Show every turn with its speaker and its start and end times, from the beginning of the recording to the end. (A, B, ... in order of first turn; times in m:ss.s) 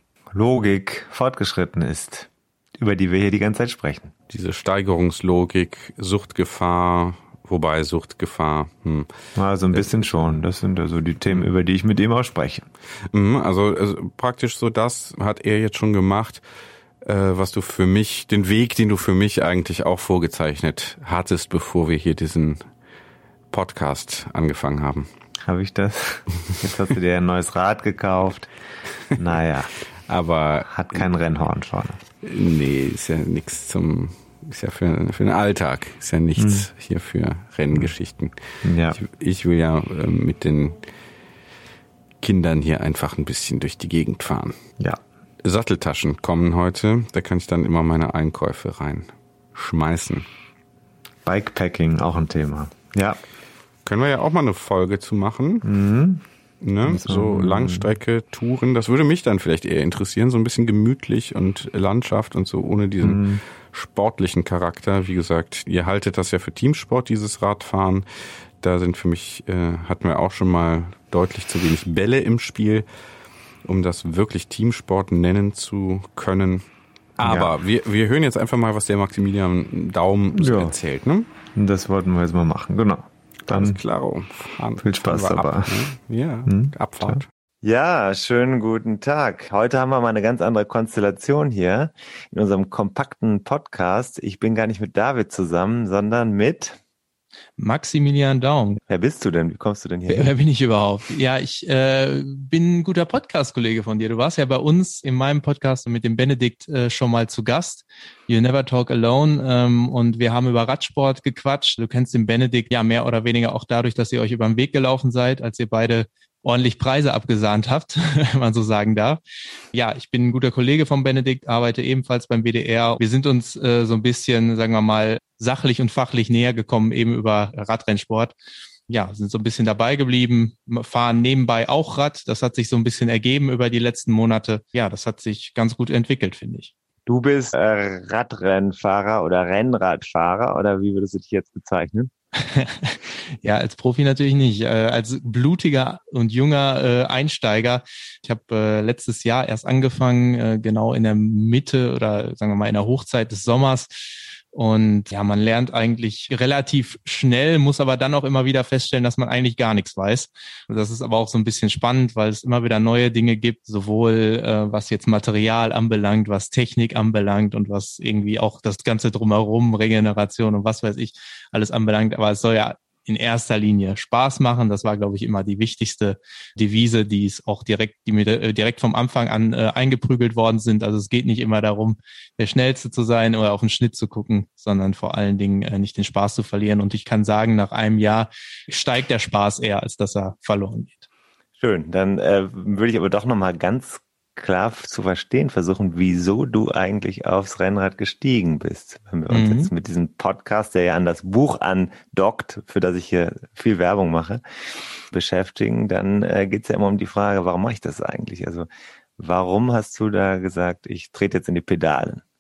0:00.3-0:04.1 A
0:04.3-0:09.1 B
0:09.4-0:12.7 A
0:09.7-0:10.4 B
0:13.1-0:16.4 B
0:17.0-0:22.6 B
0:23.5-0:25.1 B
0:25.4-0:28.5 A
0:29.2-0:29.7 A
0:30.1-0:30.7 B
0:30.7-0:32.0 A
0:32.2-0:38.3 B
0:36.4-0:36.7 A
0:38.6-0:39.0 A
0:38.9-0:40.8 B
0:42.2-0:44.6 B
0:45.4-0:50.3 B
0:51.2-0:53.2 A
0:53.9-0:55.7 B
0:55.6-0:56.2 A
0:56.6-1:08.0 B
0:56.8-0:57.9 A
1:03.0-1:03.4 A
1:08.6-1:12.8 B
1:13.6-1:16.6 B
1:17.2-1:21.3 B
1:17.2-1:17.5 A
1:20.4-1:20.7 A
1:21.6-1:23.8 A
1:23.5-1:27.3 B
1:24.8-1:25.9 A
1:26.5-1:36.8 A
1:37.6-1:38.8 C
1:38.9-1:40.4 A
1:40.1-1:59.2 C
1:59.7-2:08.3 C
2:08.9-2:16.7 C
2:17.1-2:22.1 A
2:22.4-3:11.1 C
3:11.6-3:24.4 A
3:19.3-3:19.7 C
3:25.1-3:32.2 A